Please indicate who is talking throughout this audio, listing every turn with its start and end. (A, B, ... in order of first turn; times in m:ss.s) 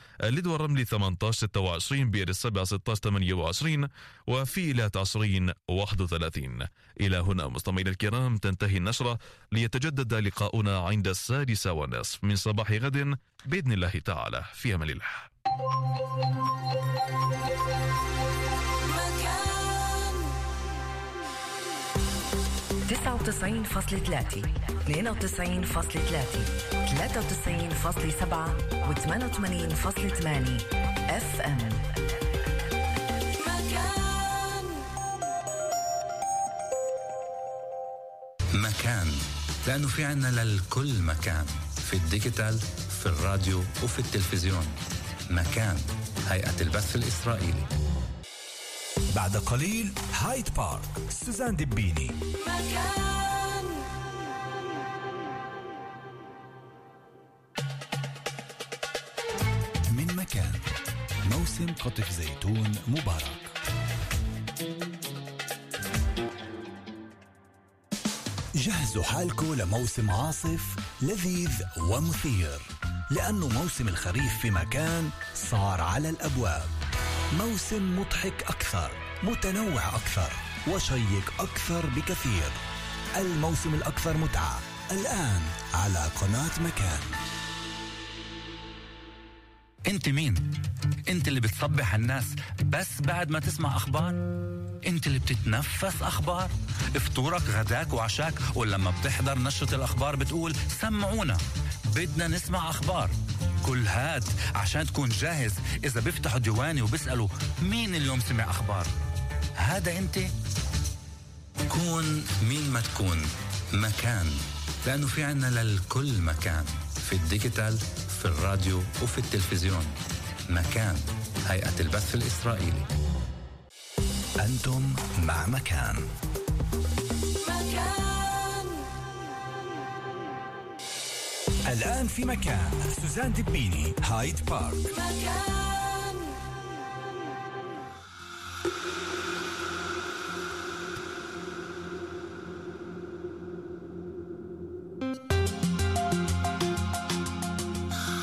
0:00.2-0:15.3 A
0:18.9-0:20.3 B
0:22.9-0:31.9 C
0:33.4-0:34.7 B
0:38.6-0:44.8 D
0:45.3-0:47.7 D
0:49.1-0:52.2 E
0:52.4-0:53.7 B
0:59.9-1:00.7 E
1:01.2-1:03.5 E
1:08.6-1:16.7 E
1:17.3-1:22.6 E
1:23.2-1:27.2 E
1:29.9-1:30.5 D
1:31.1-1:34.2 D
1:34.9-1:41.4 D
1:41.9-1:48.9 D
1:49.6-1:50.3 D
1:51.7-2:00.0 D
2:00.5-2:02.9 D
2:04.4-2:06.0 E
2:07.4-2:08.8 B
2:11.6-2:14.9 E
2:14.9-2:16.2 B